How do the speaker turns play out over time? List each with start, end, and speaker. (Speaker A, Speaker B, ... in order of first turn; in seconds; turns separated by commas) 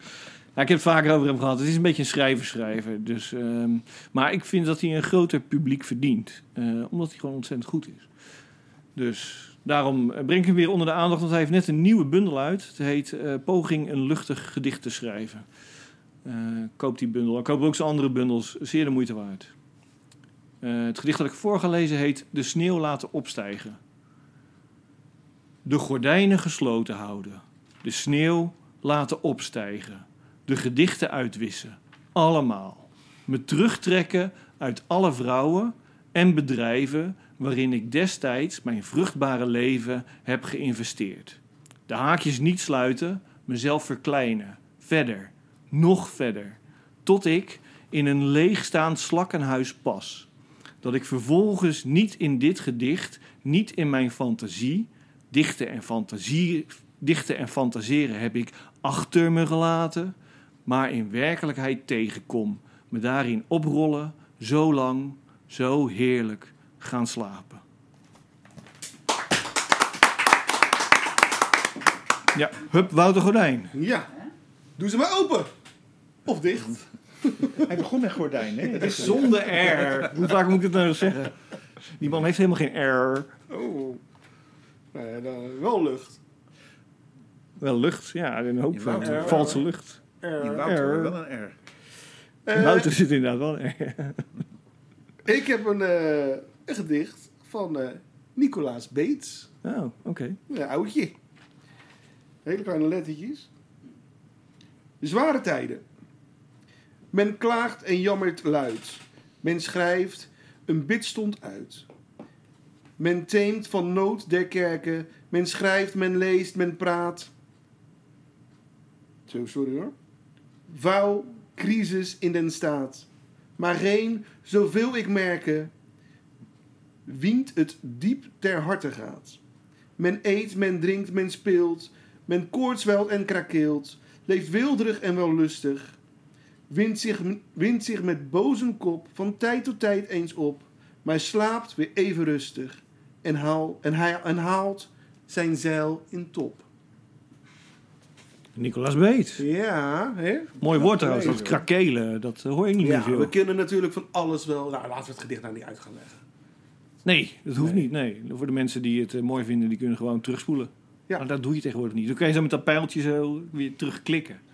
Speaker A: 0.6-8.1, Speaker A: 9.0-15.4, Speaker A: 16.2-19.5, Speaker A: 20.6-23.8, Speaker A: 25.6-50.3, Speaker A: 50.8-60.1, Speaker A: 60.7-67.6, Speaker A: 72.3-73.7, Speaker B: 73.7-74.1, Speaker B: 74.8-75.5, Speaker B: 76.2-77.8, Speaker C: 77.6-79.5, Speaker A: 78.8-81.3, Speaker B: 78.8-79.5, Speaker A: 82.0-83.3, Speaker B: 83.5-84.0, Speaker B: 84.9-86.2, Speaker A: 87.6-90.0, Speaker C: 88.7-89.7, Speaker B: 89.0-89.7, Speaker B: 90.2-90.8, Speaker C: 90.4-91.6, Speaker A: 90.6-91.2, Speaker B: 92.5-92.9, Speaker A: 92.5-94.2, Speaker B: 95.2-99.5, Speaker A: 99.6-100.4, Speaker B: 100.5-101.2, Speaker B: 102.5-103.5, Speaker B: 105.0-105.9, Speaker B: 107.1-111.9, Speaker B: 113.0-117.3, Speaker B: 119.3-119.9, Speaker B: 120.7-125.7, Speaker B: 127.1-129.4, Speaker B: 130.0-136.0, Speaker B: 136.7-146.7, Speaker A: 148.6-149.5, Speaker B: 149.4-151.6, Speaker A: 150.6-153.3, Speaker C: 150.7-151.4, Speaker B: 152.8-156.2, Speaker A: 157.1-164.4, Speaker B: 157.6-157.8